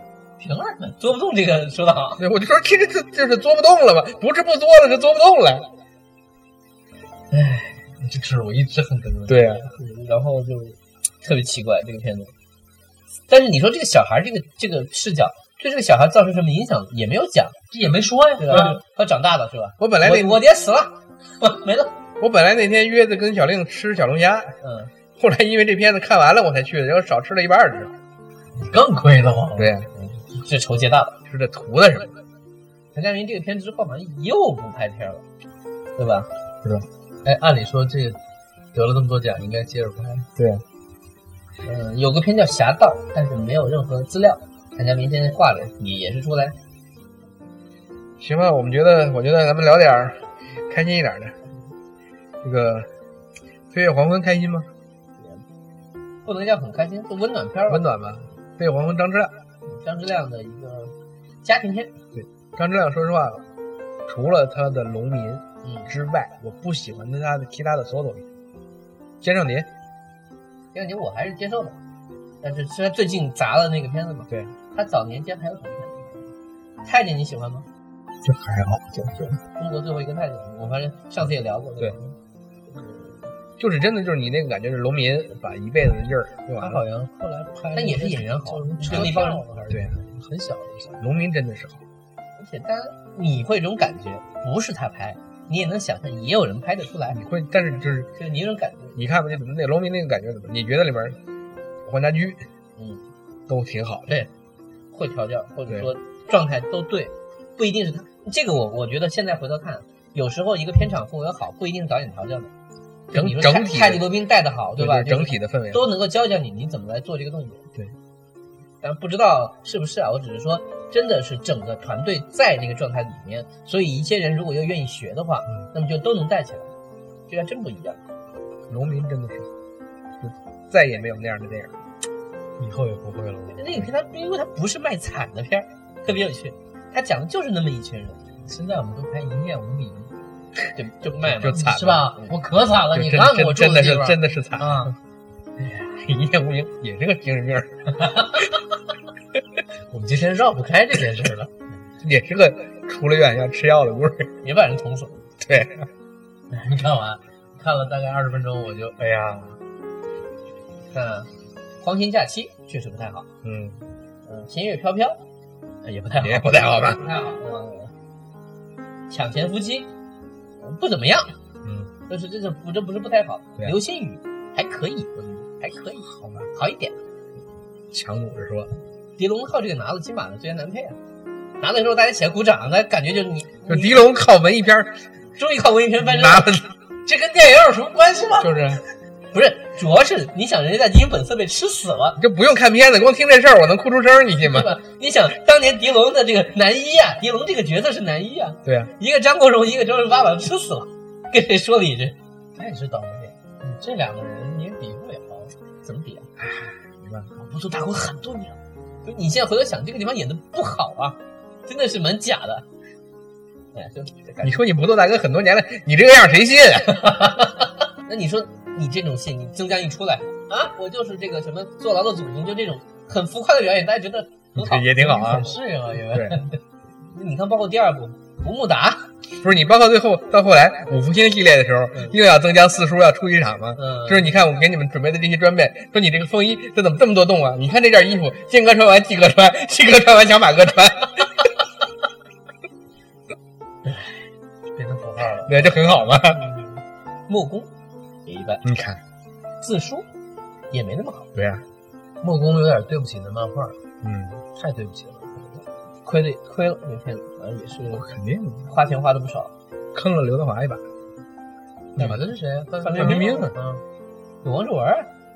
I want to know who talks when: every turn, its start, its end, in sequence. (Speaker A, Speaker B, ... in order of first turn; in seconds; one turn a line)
Speaker A: 0.4-1.0
Speaker B: 1.0-2.2
Speaker C: 2.2-5.7
Speaker B: 7.3-7.7
Speaker A: 8.0-9.6
Speaker C: 9.3-9.7
Speaker B: 9.7-12.3
Speaker B: 13.3-17.6
Speaker A: 17.7-18.8
Speaker B: 18.4-22.0
Speaker C: 19.8-20.4
Speaker C: 22.2-24.5
Speaker B: 24.6-24.9
Speaker C: 25.1-27.9
Speaker A: 28.6-29.7
Speaker C: 29.6-29.9
Speaker B: 29.9-31.2
Speaker C: 31.3-32.1
Speaker B: 32.9-35.2
Speaker B: 36.0-36.3
Speaker A: 37.2-38.2
Speaker A: 38.7-40.3
Speaker C: 40.4-40.6
Speaker B: 41.6-46.5
Speaker C: 48.2-51.4
Speaker C: 52.4-52.9
Speaker C: 53.7-54.7
Speaker B: 55.2-55.4
Speaker B: 56.2-57.9
Speaker C: 57.7-59.3
Speaker B: 59.6-61.9
Speaker C: 62.1-63.4
Speaker C: 64.1-68.3
Speaker B: 65.6-65.9
Speaker C: 69.2-69.7
Speaker B: 70.7-71.8
Speaker B: 72.4-76.3
Speaker C: 74.3-74.5
Speaker B: 76.8-77.7
Speaker C: 78.2-79.4
Speaker B: 79.5-82.1
Speaker B: 82.7-83.2
Speaker C: 83.6-86.8
Speaker A: 86.6-91.0
Speaker B: 87.7-89.4
Speaker C: 88.9-90.0
Speaker C: 91.0-91.8
Speaker B: 92.4-97.2
Speaker C: 97.1-98.1
Speaker B: 98.2-99.0
Speaker C: 99.0-101.2
Speaker C: 101.8-102.5
Speaker B: 102.8-103.0
Speaker C: 103.5-104.2
Speaker B: 104.9-112.5
Speaker C: 113.1-114.1
Speaker B: 113.1-117.7
Speaker C: 114.8-115.9
Speaker B: 118.8-126.7
Speaker B: 127.3-128.0
Speaker C: 128.7-129.5
Speaker C: 130.2-131.8
Speaker C: 132.6-133.9
Speaker B: 133.5-138.2
Speaker A: 138.4-140.1
Speaker B: 140.7-142.3
Speaker C: 141.2-142.1
Speaker A: 141.5-144.9
Speaker C: 142.9-144.9
Speaker C: 145.7-147.9
Speaker A: 148.0-148.5
Speaker A: 149.9-151.5
Speaker C: 152.0-154.3
Speaker B: 154.4-155.3
Speaker C: 155.4-155.9
Speaker A: 156.5-159.0
Speaker C: 159.0-159.6
Speaker B: 160.9-161.3
Speaker B: 161.8-163.3
Speaker C: 163.4-163.8
Speaker B: 164.2-165.2
Speaker B: 165.8-167.9
Speaker C: 166.1-167.1
Speaker B: 169.1-169.9
Speaker B: 170.6-171.3
Speaker C: 171.6-171.9
Speaker B: 172.1-176.9
Speaker C: 176.1-176.5
Speaker C: 177.9-178.7
Speaker B: 179.2-181.0
Speaker B: 181.6-184.1
Speaker C: 183.7-185.0
Speaker B: 185.4-186.5
Speaker C: 186.0-186.7
Speaker A: 187.0-188.6
Speaker C: 188.4-188.8
Speaker B: 189.3-192.2
Speaker C: 192.2-194.7
Speaker B: 194.5-202.2
Speaker C: 198.6-198.9
Speaker A: 202.5-205.5
Speaker B: 205.8-206.3
Speaker C: 206.4-207.3
Speaker B: 207.4-212.7
Speaker B: 213.7-214.6
Speaker C: 214.4-217.3
Speaker B: 218.1-224.9
Speaker C: 224.5-225.5
Speaker A: 224.9-226.5
Speaker C: 226.1-226.4
Speaker B: 227.1-229.1
Speaker C: 229.4-241.5
Speaker B: 233.8-234.3
Speaker B: 243.8-244.2
Speaker A: 244.7-245.8
Speaker C: 245.4-246.4
Speaker B: 246.3-247.7
Speaker B: 248.2-248.6
Speaker C: 248.6-249.0
Speaker B: 249.6-250.1
Speaker B: 250.7-251.3
Speaker C: 251.3-251.6
Speaker A: 252.2-253.8
Speaker C: 254.0-254.4
Speaker A: 254.5-255.6
Speaker B: 256.0-258.1
Speaker C: 257.9-258.7
Speaker B: 258.6-259.5
Speaker C: 259.9-260.8
Speaker A: 261.9-263.8
Speaker B: 262.8-263.4
Speaker C: 263.0-263.5
Speaker B: 264.4-265.1